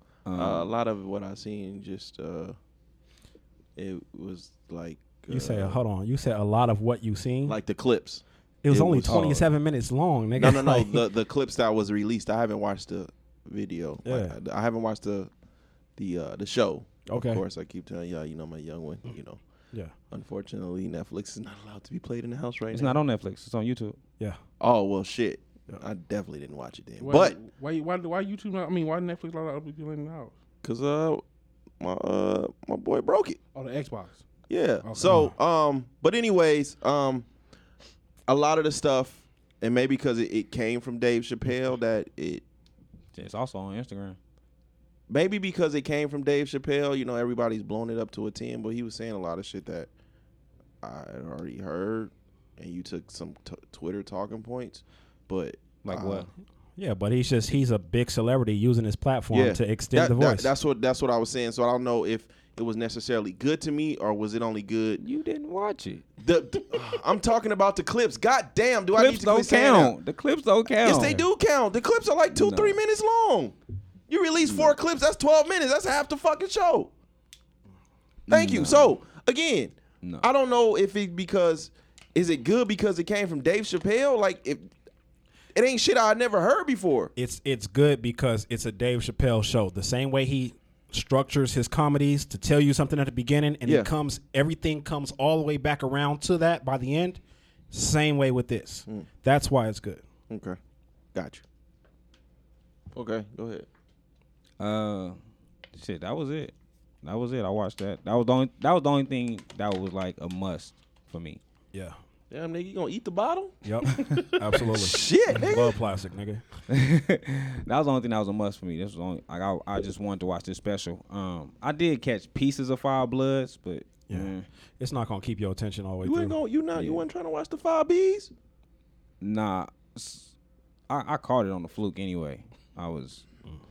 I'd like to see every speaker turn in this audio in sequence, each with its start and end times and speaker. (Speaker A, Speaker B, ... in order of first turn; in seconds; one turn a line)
Speaker A: 0.2-0.7
Speaker B: 0.3-2.5
Speaker B: 3.8-5.8
Speaker C: 5.3-7.6
Speaker B: 7.5-9.3
Speaker C: 8.6-11.0
Speaker A: 9.1-9.4
Speaker B: 10.4-15.3
Speaker C: 14.0-14.3
Speaker B: 15.9-19.4
Speaker C: 17.1-17.4
Speaker B: 20.1-22.9
Speaker A: 22.7-24.0
Speaker B: 24.6-27.4
Speaker D: 27.0-30.3
Speaker B: 30.6-31.2
Speaker B: 31.8-33.4
Speaker D: 33.5-34.2
Speaker B: 34.5-37.3
Speaker D: 34.8-35.2
Speaker C: 35.1-35.3
Speaker B: 38.3-42.4
Speaker A: 43.1-44.2
Speaker B: 45.1-49.9
Speaker B: 50.8-56.3
Speaker A: 55.8-56.3
Speaker C: 56.8-60.5
Speaker B: 59.3-65.0
Speaker A: 65.0-66.1
Speaker B: 66.2-69.9
Speaker A: 69.0-71.2
Speaker B: 70.8-73.5
Speaker A: 72.3-72.8
Speaker B: 74.1-76.9
Speaker A: 74.4-74.7
Speaker B: 78.3-84.7
Speaker A: 78.3-78.9
Speaker A: 80.0-80.3
Speaker B: 85.5-87.1
Speaker C: 87.2-100.0
Speaker B: 93.6-93.9
Speaker B: 100.3-100.6
Speaker B: 101.1-101.4
Speaker B: 102.9-103.7
Speaker A: 104.6-105.2
Speaker A: 105.7-111.4
Speaker B: 112.3-113.5
Speaker C: 113.6-116.4
Speaker B: 114.6-115.8
Speaker A: 116.7-124.5
Speaker C: 124.1-126.4
Speaker B: 126.0-128.3
Speaker A: 126.7-127.0
Speaker A: 129.2-130.3
Speaker A: 130.9-133.2